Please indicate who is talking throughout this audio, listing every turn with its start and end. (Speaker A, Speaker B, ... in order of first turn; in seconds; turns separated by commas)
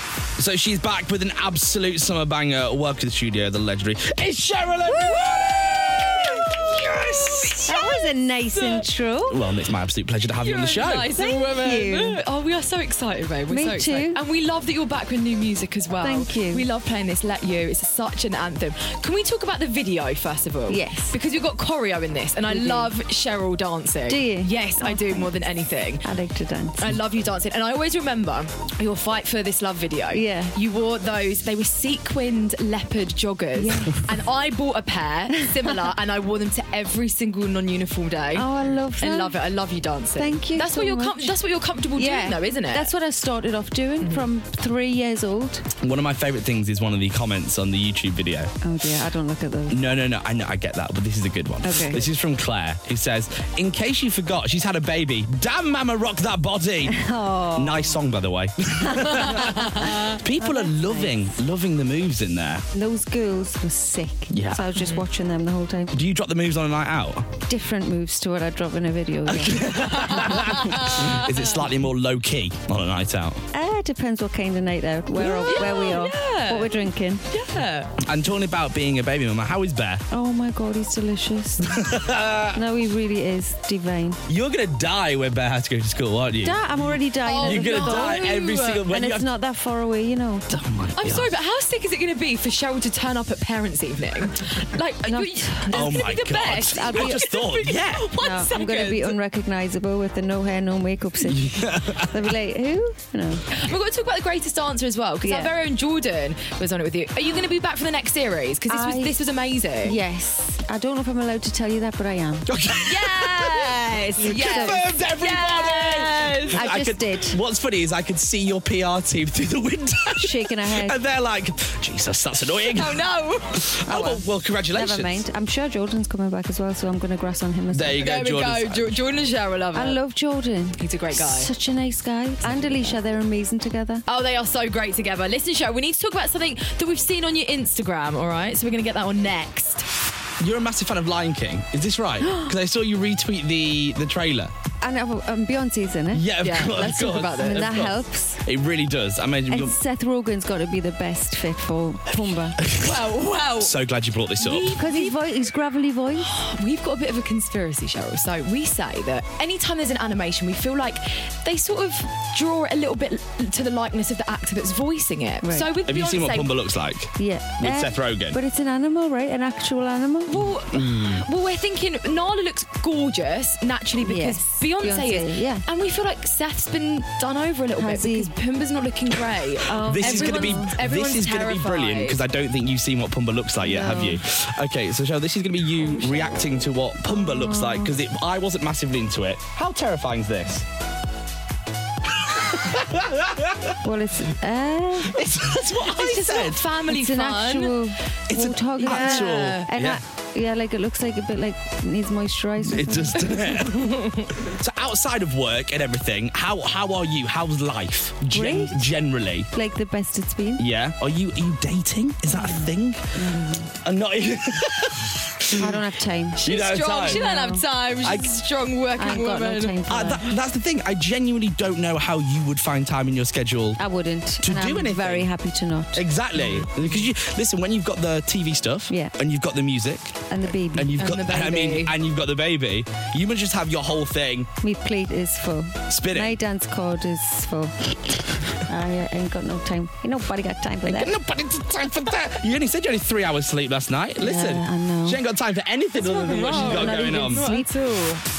Speaker A: 0.4-7.7, Speaker B: 4.9-5.4, Speaker B: 6.2-8.9, Speaker C: 7.7-9.5, Speaker A: 9.3-11.2, Speaker B: 10.4-26.1, Speaker C: 11.3-12.2, Speaker C: 13.5-14.2, Speaker C: 16.0-16.7, Speaker C: 20.7-21.1, Speaker C: 22.5-22.9, Speaker C: 24.1-25.4, Speaker C: 26.0-26.9, Speaker B: 26.8-42.9, Speaker C: 30.1-30.6, Speaker C: 33.6-34.0, Speaker C: 38.4-39.4, Speaker C: 40.2-41.4, Speaker C: 42.0-45.6, Speaker B: 44.0-44.3, Speaker A: 45.8-48.5, Speaker C: 48.6-49.8, Speaker A: 49.7-57.0, Speaker C: 51.6-52.1, Speaker C: 56.9-58.0, Speaker A: 57.6-62.6, Speaker C: 59.0-61.4, Speaker C: 62.7-65.9, Speaker A: 64.3-64.7, Speaker B: 64.8-65.0, Speaker A: 65.9-67.3, Speaker C: 67.5-70.9, Speaker A: 69.3-73.4, Speaker B: 70.3-71.3, Speaker C: 73.5-77.2, Speaker B: 75.2-77.9, Speaker A: 78.0-80.0, Speaker C: 80.1-82.0, Speaker A: 81.6-82.6, Speaker C: 82.5-84.2, Speaker A: 84.3-89.3, Speaker C: 86.4-90.6, Speaker B: 87.3-88.8, Speaker A: 90.5-91.3, Speaker B: 91.0-99.2, Speaker C: 95.1-96.0, Speaker A: 95.7-98.1, Speaker C: 96.7-97.3, Speaker C: 98.2-103.4, Speaker A: 101.2-102.3, Speaker B: 103.5-110.0, Speaker C: 105.2-105.5, Speaker C: 108.7-109.2, Speaker C: 109.8-112.5, Speaker A: 112.5-113.7, Speaker B: 112.9-116.6, Speaker A: 114.2-123.0, Speaker C: 114.3-114.9, Speaker C: 116.5-117.4, Speaker C: 120.2-121.0, Speaker B: 122.7-123.7, Speaker A: 123.6-125.3, Speaker C: 123.9-128.1, Speaker A: 127.7-128.9, Speaker B: 128.0-130.0, Speaker C: 129.7-134.0, Speaker B: 130.8-131.5, Speaker B: 132.4-132.9, Speaker B: 134.1-139.9, Speaker A: 140.4-144.5, Speaker C: 142.2-142.5, Speaker C: 144.8-146.3, Speaker A: 146.1-149.8, Speaker B: 146.4-147.7, Speaker C: 147.3-148.4, Speaker C: 149.5-152.6, Speaker B: 152.8-153.8, Speaker A: 153.6-154.8, Speaker B: 154.4-155.2, Speaker C: 154.8-156.3, Speaker B: 156.2-166.5, Speaker C: 165.4-165.7, Speaker A: 165.8-168.4, Speaker C: 167.2-170.4, Speaker B: 170.3-182.2, Speaker A: 170.5-171.2, Speaker C: 174.0-175.7, Speaker C: 177.8-178.3, Speaker C: 179.7-180.8, Speaker A: 179.9-190.6, Speaker C: 183.6-184.2, Speaker C: 187.1-187.9, Speaker A: 192.4-193.7, Speaker C: 193.8-195.2, Speaker A: 195.1-196.6, Speaker B: 195.8-197.8, Speaker C: 197.0-203.6, Speaker A: 198.3-200.0, Speaker B: 198.8-199.7, Speaker A: 202.6-203.9, Speaker B: 203.7-204.2, Speaker A: 204.4-209.5, Speaker C: 208.3-208.9, Speaker C: 209.5-210.6, Speaker A: 210.6-215.8, Speaker C: 212.3-213.7, Speaker C: 215.5-216.5, Speaker B: 216.4-219.8, Speaker A: 216.4-217.2, Speaker C: 217.1-218.2, Speaker A: 218.0-218.3, Speaker C: 219.0-220.3, Speaker A: 219.9-223.9, Speaker C: 223.8-226.7, Speaker A: 224.4-225.3, Speaker A: 225.9-234.5, Speaker C: 228.9-229.2, Speaker C: 230.3-231.0, Speaker B: 231.0-231.9, Speaker C: 234.6-241.2, Speaker A: 235.9-236.4, Speaker A: 240.9-247.4, Speaker C: 244.2-245.2, Speaker B: 246.0-248.2, Speaker C: 246.5-247.7